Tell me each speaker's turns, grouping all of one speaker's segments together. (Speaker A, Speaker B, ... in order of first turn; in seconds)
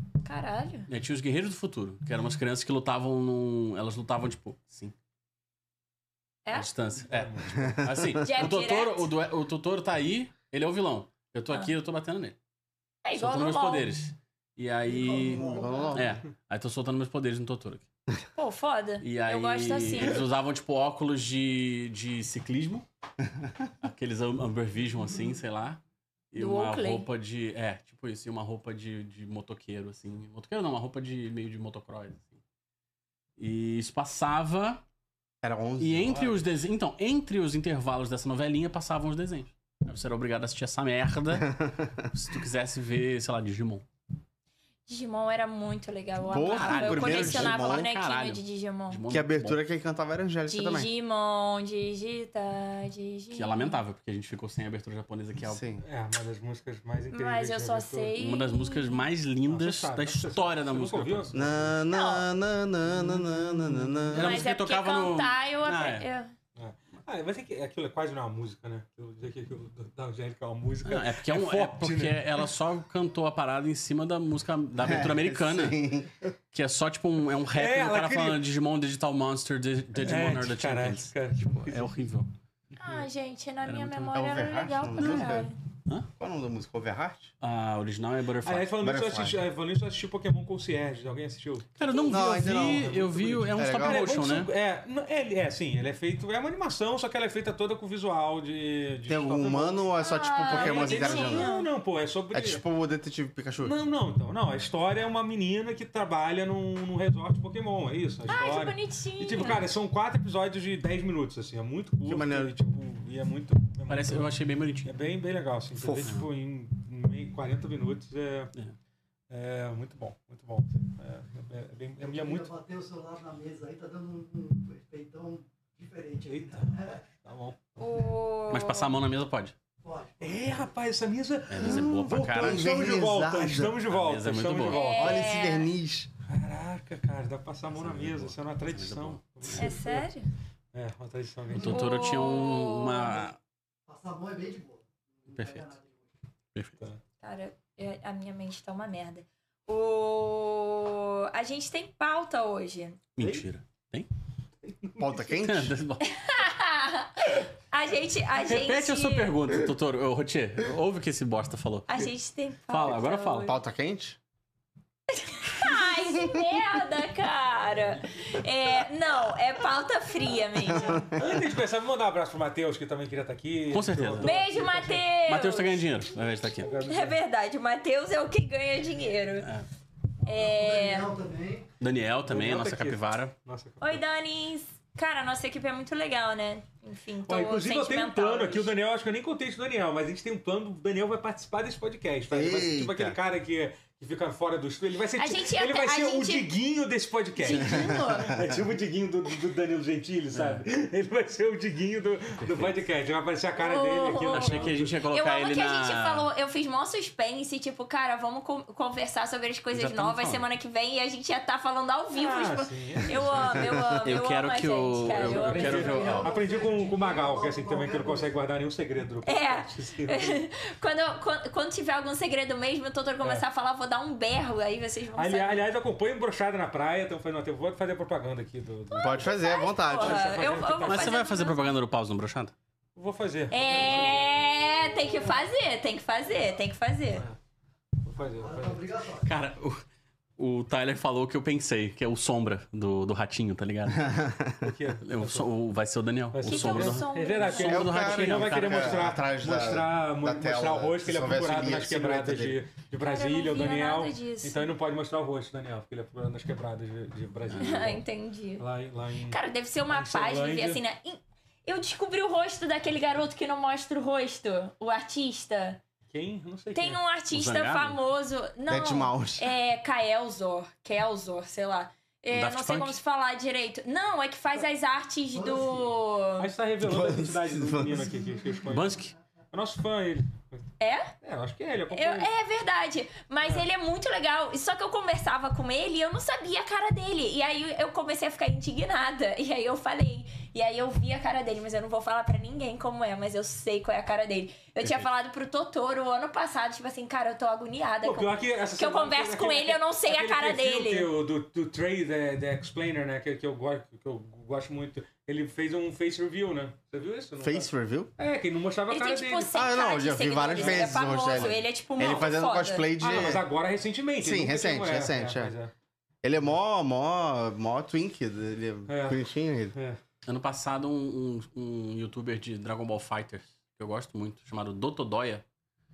Speaker A: 0.2-0.9, 6.4-6.7, 8.2-9.1, 13.0-13.9, 18.4-20.2, 26.4-27.1, 44.9-49.0, 50.5-53.8, 57.1-59.0, 61.9-62.3, 64.1-66.3, 82.8-85.5, 100.0-101.7, 108.3-109.7, 127.8-128.9, 134.7-135.7, 139.5-140.3, 141.6-143.2, 147.2-153.0, 156.0-159.3, 161.9-163.6, 165.1-171.1, 174.2-175.8, 176.8-179.5, 180.2-181.1, 183.8-188.7, 195.2-196.5, 197.4-198.4, 203.6-215.9, 219.2-225.6, 228.9-231.7, 233.5-237.3, 246.4-247.9, 253.0-254.7, 257.6-258.6, 259.3-265.8, 266.8-276.5, 280.8-281.1, 281.9-301.1, 308.9-312.9
Speaker B: 0.9-4.9, 6.5-12.4, 13.1-17.9, 19.0-22.9, 23.8-32.4, 33.4-34.8, 35.8-43.9, 46.3-49.6, 53.3-55.6, 58.2-61.7, 64.1-66.1, 70.8-75.8, 76.5-82.3, 83.6-84.1, 84.9-86.1, 87.4-88.7, 91.8-94.5, 113.9-114.9, 128.5-129.6, 131.5-132.7, 133.9-134.9, 137.7-139.8, 141.5-143.4, 145.3-145.7, 146.5-146.8, 153.2-154.1, 155.3-156.1, 158.4-162.1, 162.7-163.6, 173.7-174.4, 175.3-176.8, 179.4-179.7, 181.8-183.3, 200.3-200.6, 202.4-202.8, 204.2-206.3, 209.7-210.4, 214.0-216.3, 230.9-232.5, 239.2-239.8, 240.4-244.2, 245.0-249.2, 257.5-257.9, 267.3-268.0, 272.3-273.0, 278.7-279.1, 320.3-325.4
Speaker C: 7.1-7.8, 55.8-58.1, 59.5-61.7, 62.9-64.1, 66.6-72.5, 77.6-78.4, 80.0-82.0, 88.4-91.7, 93.5-99.9, 100.5-102.6, 103.6-114.3, 114.8-118.5, 119.3-122.5, 126.3-127.6, 130.2-135.2, 136.3-140.1, 140.7-141.9, 170.9-175.1, 176.6-177.2, 182.3-184.0, 187.3-205.0, 212.1-213.7, 215.1-220.4, 225.2-229.3, 229.9-231.2, 232.9-234.2, 238.1-238.9, 244.6-245.5, 246.3-258.0, 258.6-259.4, 259.9-260.8, 266.1-267.0, 276.4-279.0, 279.5-280.7, 281.2-282.3, 298.0-309.5, 310.5-311.4, 313.0-315.7, 318.9-319.2, 319.7-320.0
Speaker D: 7.5-8.2, 15.3-16.2, 35.4-36.4, 41.4-41.9, 46.2-47.9, 49.1-50.9, 55.4-55.8, 61.3-64.5, 74.8-76.1, 84.1-85.5, 86.2-87.3, 88.8-89.4, 92.0-94.1, 99.1-101.5, 102.3-103.8, 112.0-112.5, 115.8-116.2, 131.6-133.8, 134.9-136.1, 155.0-155.8, 163.4-164.2, 170.7-171.1, 192.3-193.2, 197.6-198.0, 229.0-230.4, 243.9-244.6, 247.5-252.6, 268.7-269.5, 276.8-278.1, 307.4-308.1, 309.5-313.4, 314.2-315.6, 316.2-319.8
Speaker E: 14.9-16.1, 122.0-127.1, 129.8-130.7, 143.9-146.1, 180.2-181.7, 215.4-218.4, 238.4-239.3, 275.3-275.9